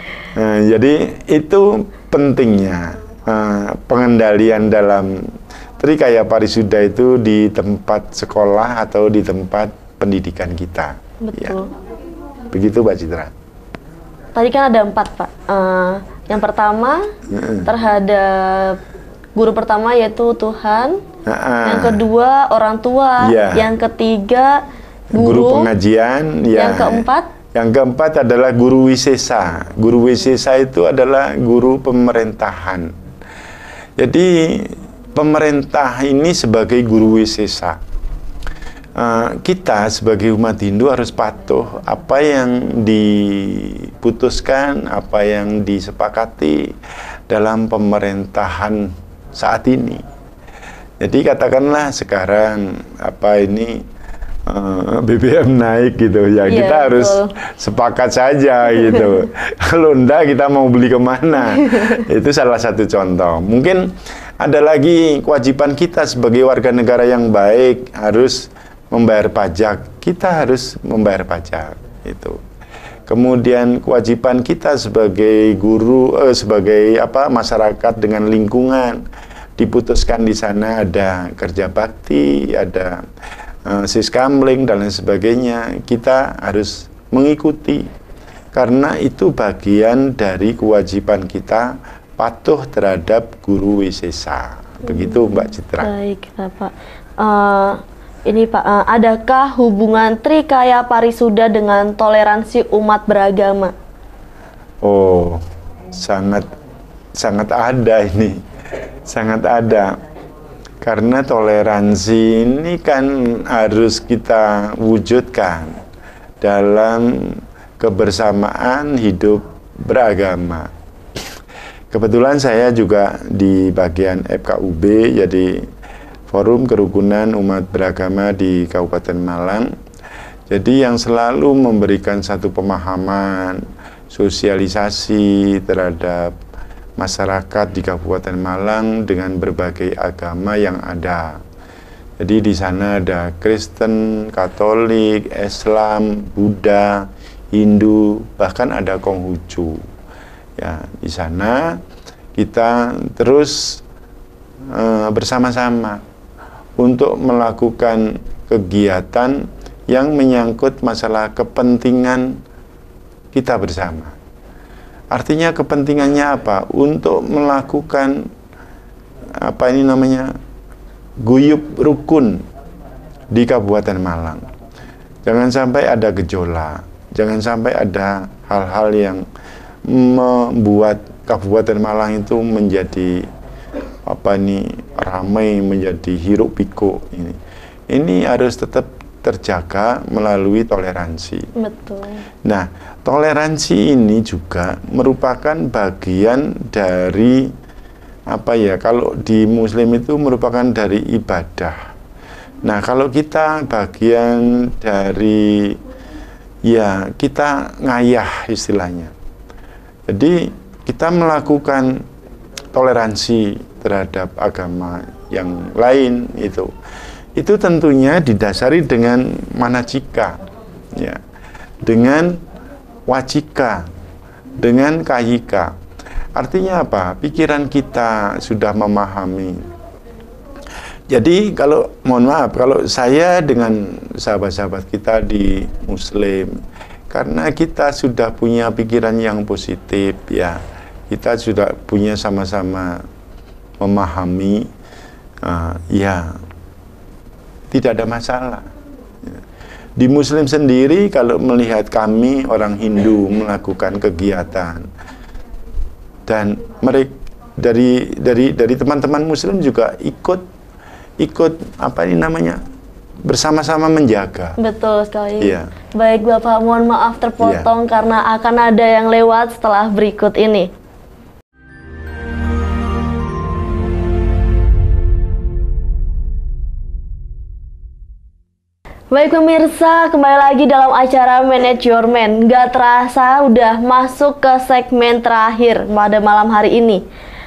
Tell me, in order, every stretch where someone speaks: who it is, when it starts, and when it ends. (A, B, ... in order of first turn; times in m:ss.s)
0:00.3-0:11.6 A
0:11.2-0:11.7 B
0:12.5-0:13.3 A
0:14.3-0:17.1 B
0:17.3-0:17.7 A
0:17.6-0:18.8 B
0:19.3-0:21.0 B
0:21.2-0:22.0 A
0:21.6-0:24.6 B
0:23.2-0:23.7 A
0:25.1-0:25.7 B
0:25.1-0:32.9 A
0:26.5-0:27.3 B
0:34.0-0:37.8 A
0:39.0-0:46.8 A
0:47.3-0:50.0 A
0:51.0-0:53.8 A
0:54.5-1:12.4 A
0:56.4-0:57.3 B
1:01.7-1:02.0 B
1:13.1-1:19.0 A
1:19.6-1:23.0 A
1:23.6-1:27.9 A
1:28.5-1:35.9 A
1:34.8-1:43.7 B
1:44.8-1:45.4 A
1:45.9-1:46.5 A
1:47.2-1:48.4 A
1:49.0-1:50.0 A
1:50.8-1:55.8 A
1:56.4-2:01.2 A
2:01.9-2:05.7 A
2:06.3-2:09.7 A
2:10.5-2:16.3 A
2:17.0-2:21.4 A
2:22.2-2:29.8 A
2:30.6-2:31.8 A
2:32.4-2:33.8 A
2:34.7-2:36.0 A
2:36.8-2:42.4 A
2:43.3-2:44.1 A
2:45.1-2:48.3 A
2:49.4-2:50.3 A
2:51.2-2:52.4 A
2:53.3-2:54.4 A
2:55.2-2:59.2 A
2:59.8-3:03.2 A
3:04.1-3:07.4 A
3:07.9-3:11.5 A
3:11.5-3:12.2 B
3:12.4-3:17.5 A
3:18.3-3:21.8 A
3:22.6-3:25.8 A
3:26.6-3:29.1 A
3:30.1-3:32.0 A
3:32.7-3:36.7 A
3:37.4-3:40.4 A
3:41.8-3:42.4 A
3:43.1-3:43.9 A
3:44.6-3:45.7 A
3:46.4-3:49.7 A
3:51.1-4:03.0 A
4:03.8-4:04.7 A
4:05.4-4:06.4 A
4:07.7-4:08.6 A
4:10.0-4:14.8 A
4:16.3-4:20.4 A
4:21.2-4:22.6 A
4:23.2-4:24.6 A
4:24.6-4:30.7 B
4:25.4-4:25.7 A
4:27.4-4:27.7 A
4:39.1-4:47.0 B